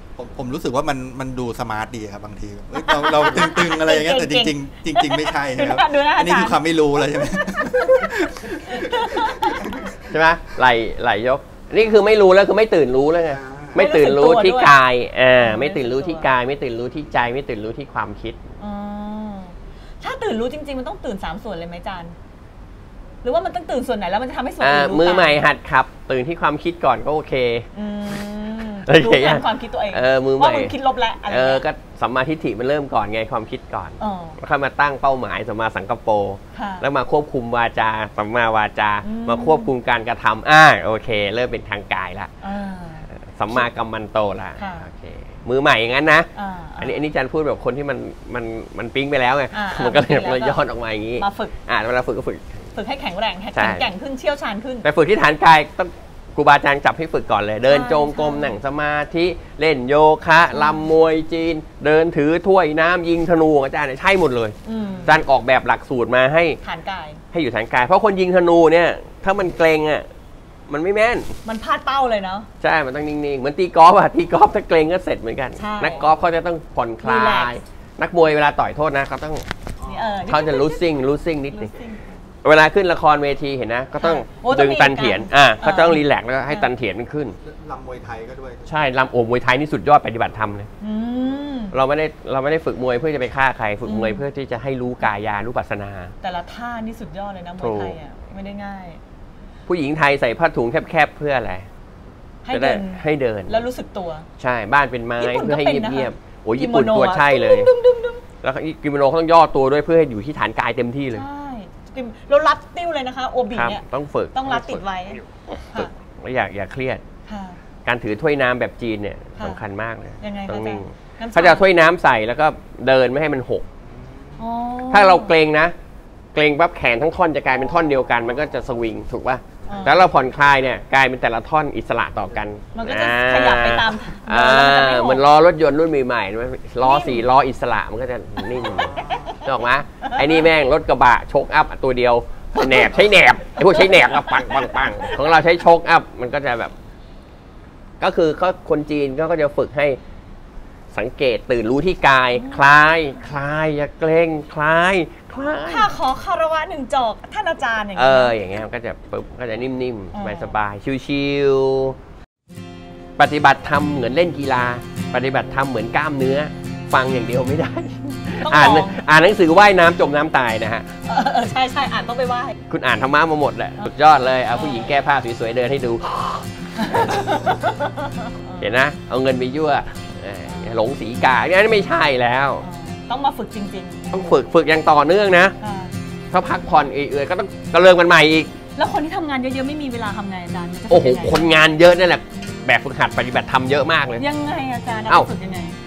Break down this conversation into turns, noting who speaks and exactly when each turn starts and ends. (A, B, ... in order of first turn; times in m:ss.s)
0:00.2-0:09.9 A
0:02.7-0:09.9 B
0:10.0-0:18.4 C
0:13.4-0:13.8 A
0:13.7-0:14.8 B
0:15.4-0:16.3 B
0:18.6-0:22.1 B
0:23.2-0:25.4 B
0:24.6-0:27.7 C
0:27.7-0:31.6 B
0:28.9-0:30.7 C
0:31.3-0:42.3 C
0:34.0-0:34.4 B
0:36.5-0:36.9 B
0:39.0-0:39.7 B
0:42.4-0:43.7 B
0:43.1-0:46.3 C
0:44.6-0:44.9 B
0:46.4-0:47.0 B
0:46.8-0:52.6 C
0:49.5-0:50.6 B
0:51.2-0:51.6 B
0:52.8-0:54.9 B
0:53.6-0:53.9 C
0:54.8-1:06.6 C
0:57.7-0:58.6 B
1:00.5-1:00.9 B
1:04.6-1:05.2 B
1:06.6-1:07.2 B
1:07.3-1:10.1 C
1:10.7-1:11.4 C
1:11.4-1:12.5 B
1:12.6-1:19.5 C
1:15.6-1:16.1 B
1:17.0-1:17.6 B
1:19.8-1:20.1 A
1:19.8-1:21.0 B
1:20.3-1:21.7 C
1:21.5-1:22.2 B
1:22.4-1:27.4 C
1:24.0-1:26.7 B
1:27.4-1:28.7 A
1:28.7-1:30.7 C
1:30.8-1:31.7 B
1:31.7-1:36.1 C
1:33.8-1:34.2 B
1:36.2-1:39.0 B
1:37.6-1:38.0 C
1:39.7-1:41.7 C
1:42.4-1:44.3 B
1:42.5-1:43.6 C
1:44.4-1:47.7 C
1:45.2-1:48.2 B
1:48.4-1:51.2 C
1:51.1-1:55.2 B
1:53.5-1:54.8 C
1:55.7-1:57.0 C
1:57.3-1:57.6 B
1:57.8-2:03.6 C
2:00.2-2:01.7 B
2:04.4-2:05.3 B
2:04.9-2:05.8 C
2:06.3-2:26.7 C
2:09.7-2:10.1 B
2:12.7-2:15.2 B
2:16.8-2:17.3 B
2:18.6-2:19.4 B
2:20.2-2:20.4 B
2:22.6-2:23.0 B
2:23.6-2:25.2 B
2:28.0-2:30.0 C
2:30.9-2:35.9 C
2:32.3-2:32.7 B
2:35.6-2:38.4 B
2:38.0-2:42.0 C
2:40.1-2:40.6 B
2:43.2-2:50.9 C
2:48.4-2:49.1 B
2:51.0-2:52.6 B
2:52.7-2:57.4 C
2:54.6-2:54.9 B
2:56.8-2:58.7 B
2:58.6-3:02.6 C
3:02.6-3:04.2 B
3:04.1-3:05.6 C
3:05.6-3:05.9 B
3:06.3-3:08.6 C
3:08.8-3:11.5 B
3:10.9-3:14.2 C
3:14.2-3:15.8 B